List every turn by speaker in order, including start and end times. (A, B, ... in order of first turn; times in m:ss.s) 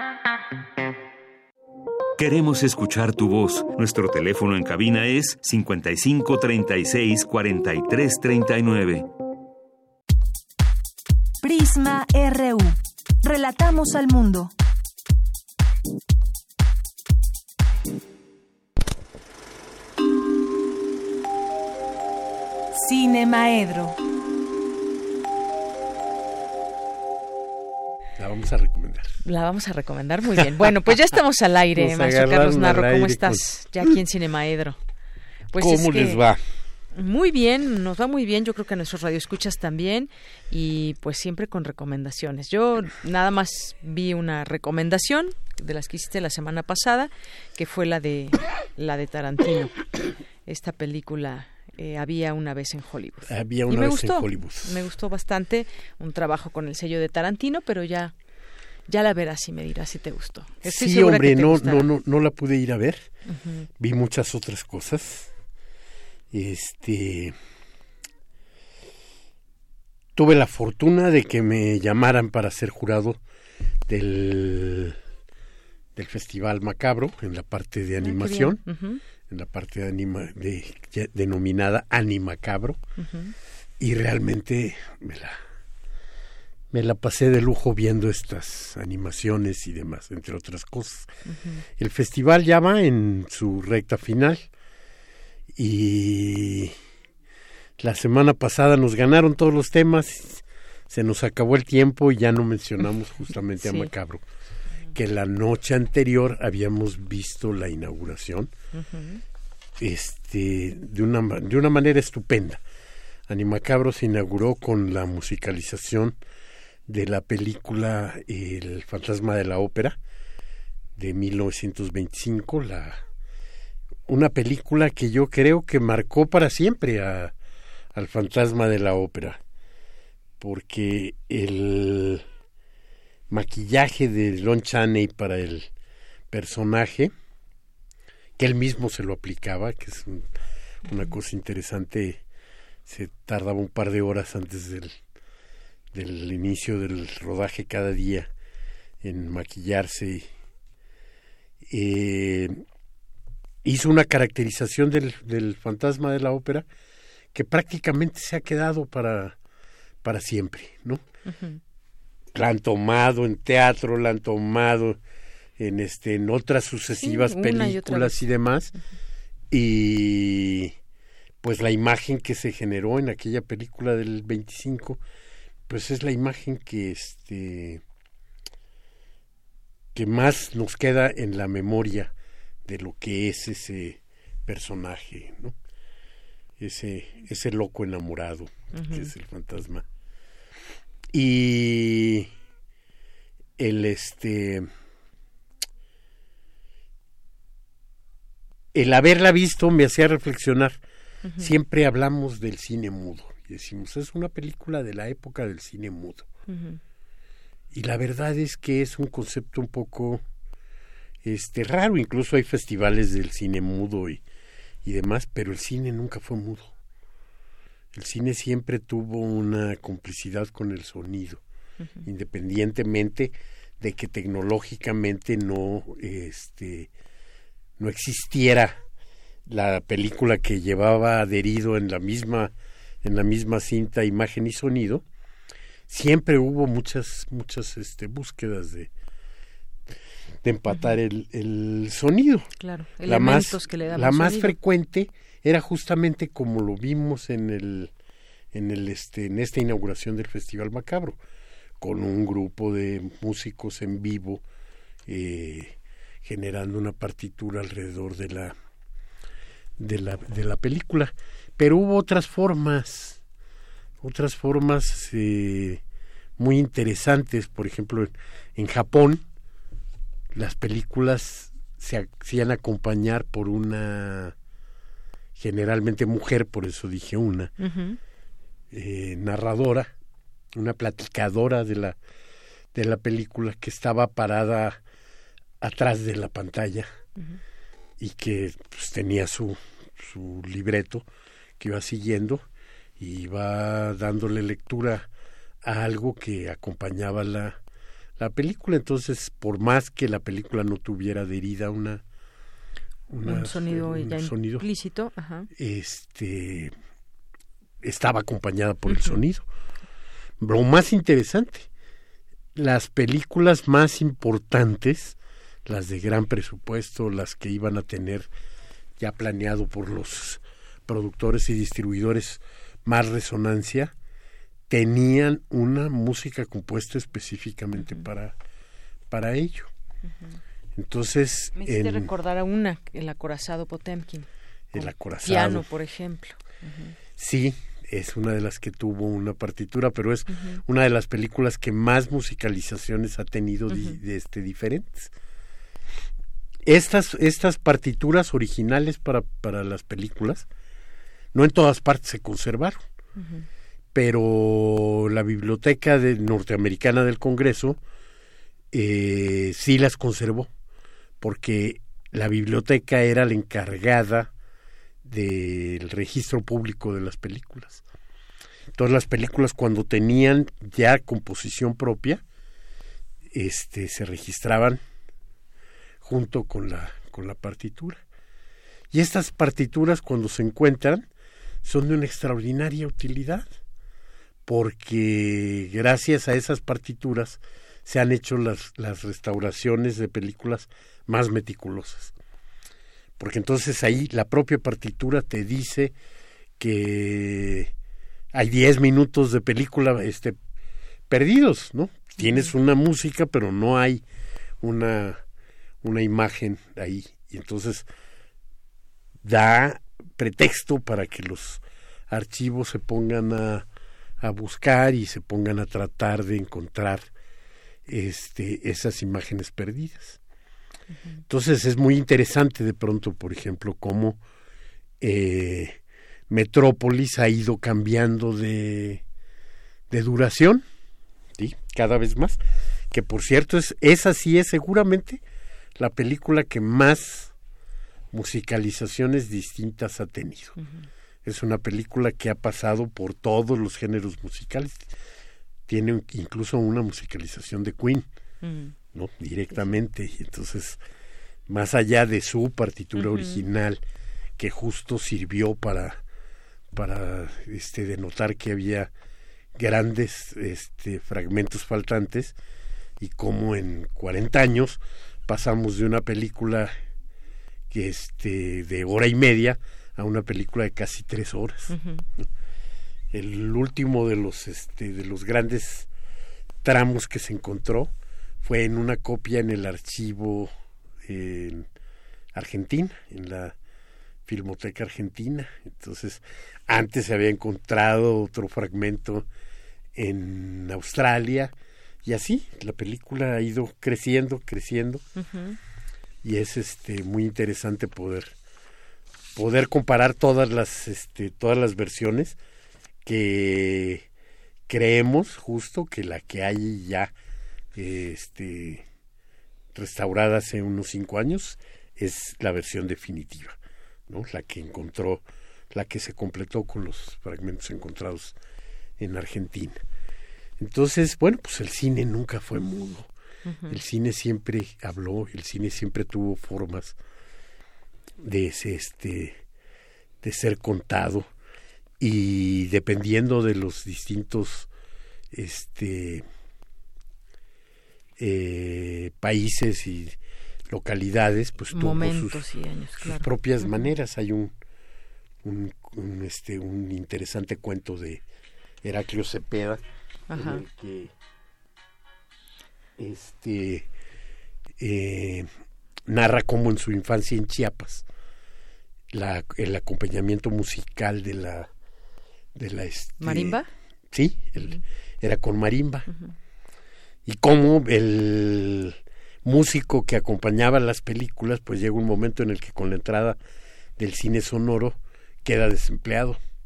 0:02.2-0:09.1 A
0:11.4-0:14.5 B
0:22.7-0:24.0 B
0:28.2-0:29.1 C
0:29.2-0:34.8 D
0:31.8-0:33.9 C
0:35.5-0:36.2 D
0:35.6-0:36.4 C
0:36.9-0:49.8 D
0:50.5-0:58.1 D
0:53.3-0:54.8 C
0:58.9-1:01.9 D
1:00.6-1:03.1 C
1:03.3-1:03.6 D
1:03.8-1:05.3 C
1:06.3-1:07.3 C
1:10.2-1:13.2 C
1:13.9-1:15.0 C
1:16.0-1:18.6 C
1:18.0-1:19.0 D
1:19.3-1:22.8 C
1:23.0-1:23.3 D
1:23.8-1:25.4 C
1:26.7-1:31.1 C
1:31.3-1:31.6 D
1:31.8-1:34.5 C
1:35.6-1:36.7 C
1:37.8-1:44.2 C
1:43.6-1:43.9 D
1:44.9-1:48.5 C
1:48.7-1:49.2 D
1:49.8-1:52.6 C
1:53.3-1:56.1 C
1:56.9-2:00.0 C
2:01.0-2:03.0 C
2:04.1-2:07.3 C
2:07.9-2:09.4 C
2:10.4-2:12.2 C
2:13.3-2:15.7 C
2:16.3-2:17.1 C
2:18.4-2:20.3 C
2:20.9-2:22.2 C
2:22.9-2:24.9 C
2:25.9-2:28.3 C
2:29.0-2:30.3 C
2:31.7-2:32.6 C
2:33.6-2:36.6 C
2:37.3-2:39.3 C
2:40.0-2:41.0 C
2:41.3-2:41.6 D
2:42.3-2:45.0 C
2:45.6-2:48.7 C
2:47.0-2:48.2 D
2:49.5-2:50.7 C
2:51.4-2:55.0 C
2:55.7-2:57.8 C
2:59.9-3:02.1 C
3:02.7-3:05.5 C
3:06.6-3:09.8 C
3:08.7-3:09.1 D
3:11.1-3:12.3 C
3:13.6-3:14.7 C
3:18.7-3:20.8 C
3:21.3-3:21.5 D
3:21.4-3:26.2 C
3:26.5-3:26.8 D
3:27.7-3:30.2 C
3:31.2-3:34.2 C
3:34.8-3:36.7 C
3:37.9-3:41.4 C
3:42.0-3:46.9 C
3:47.8-3:48.8 C
3:49.5-3:52.5 C
3:53.0-3:55.0 C
3:55.9-3:58.9 C
4:00.4-4:02.5 C
4:02.6-4:04.6 D
4:03.0-4:07.9 C
4:08.5-4:11.2 C
4:11.8-4:14.4 C
4:15.1-4:18.5 C
4:19.8-4:23.2 C
4:24.0-4:25.8 C
4:26.4-4:29.2 C
4:30.3-4:34.3 C
4:35.4-4:37.5 C
4:37.6-4:38.0 D
4:38.7-4:39.9 C
4:40.6-4:42.0 C
4:42.7-4:44.8 C
4:45.6-4:46.9 C
4:48.0-4:51.0 C
4:51.6-4:52.4 C
4:53.0-4:55.0 C
4:55.6-4:57.6 C
4:58.2-5:02.0 C
5:03.1-5:04.7 C
5:03.2-5:05.5 D
5:05.6-5:06.7 C
5:07.8-5:09.4 C
5:08.9-5:09.2 D
5:10.4-5:11.7 C
5:12.6-5:18.3 C
5:19.0-5:23.9 C
5:24.7-5:28.3 C
5:27.8-5:28.1 D
5:29.1-5:29.7 C
5:30.8-5:32.1 C
5:31.5-5:36.9 D
5:34.7-5:35.6 C
5:37.2-5:45.1 C
5:40.3-5:40.6 D
5:43.7-5:44.0 D
5:46.6-5:50.4 C
5:51.3-5:52.8 C
5:53.2-5:53.4 D
5:53.9-5:57.8 C
5:58.7-6:00.5 C
6:01.2-6:04.3 C
6:05.0-6:07.8 C
6:08.8-6:12.2 C
6:13.3-6:14.8 C
6:16.0-6:18.0 C
6:18.9-6:21.0 C
6:21.6-6:23.5 C
6:24.4-6:32.1 C
6:33.2-6:35.9 C
6:36.6-6:37.7 C
6:38.3-6:40.4 C
6:41.1-6:44.0 C
6:42.2-6:42.5 D
6:44.6-6:45.2 C
6:45.8-6:47.8 C
6:49.2-6:53.6 C
6:54.2-6:57.0 C
6:57.9-7:00.2 C
7:01.3-7:04.2 C
7:05.0-7:05.8 C
7:06.3-7:09.0 C
7:09.9-7:10.6 C
7:11.4-7:12.4 C
7:12.9-7:15.2 C
7:15.8-7:17.3 C
7:18.1-7:20.5 C
7:20.6-7:20.9 D
7:21.2-7:24.8 C
7:25.7-7:28.0 C
7:28.4-7:28.7 D
7:28.9-7:30.8 C
7:31.5-7:33.8 C
7:33.0-7:33.4 D
7:34.4-7:36.0 C
7:36.7-7:38.9 C
7:39.6-7:42.3 C
7:43.0-7:46.7 C
7:47.7-7:51.7 C
7:51.7-7:52.0 D
7:53.1-7:55.9 C
7:56.6-7:57.9 C
7:58.4-8:00.5 C
8:01.0-8:01.6 C
8:02.3-8:03.5 C
8:04.2-8:09.2 C
8:10.0-8:11.5 C
8:12.0-8:15.0 C
8:15.2-8:15.6 D
8:16.2-8:18.3 C
8:19.4-8:22.4 C
8:23.0-8:24.0 C
8:24.7-8:27.1 C
8:27.8-8:28.8 C
8:29.7-8:33.6 C
8:34.1-8:38.4 C
8:39.0-8:39.8 C
8:40.6-8:43.1 C
8:43.4-8:43.8 D
8:43.7-8:47.0 C
8:48.2-8:49.4 C
8:50.2-8:51.3 C
8:52.0-8:54.7 C
8:55.3-8:56.2 C
8:58.2-9:00.2 C
9:00.7-9:02.4 C
9:01.7-9:03.9 D
9:03.0-9:04.5 C
9:05.4-9:08.2 C
9:08.8-9:09.8 C
9:10.3-9:10.6 D
9:10.3-9:11.1 C
9:13.0-9:13.8 C
9:14.8-9:15.5 C
9:16.1-9:18.0 C
9:19.1-9:21.7 C
9:22.6-9:23.6 C
9:23.2-9:23.7 D
9:24.1-9:26.0 C
9:27.2-9:33.4 C
9:34.0-9:36.4 C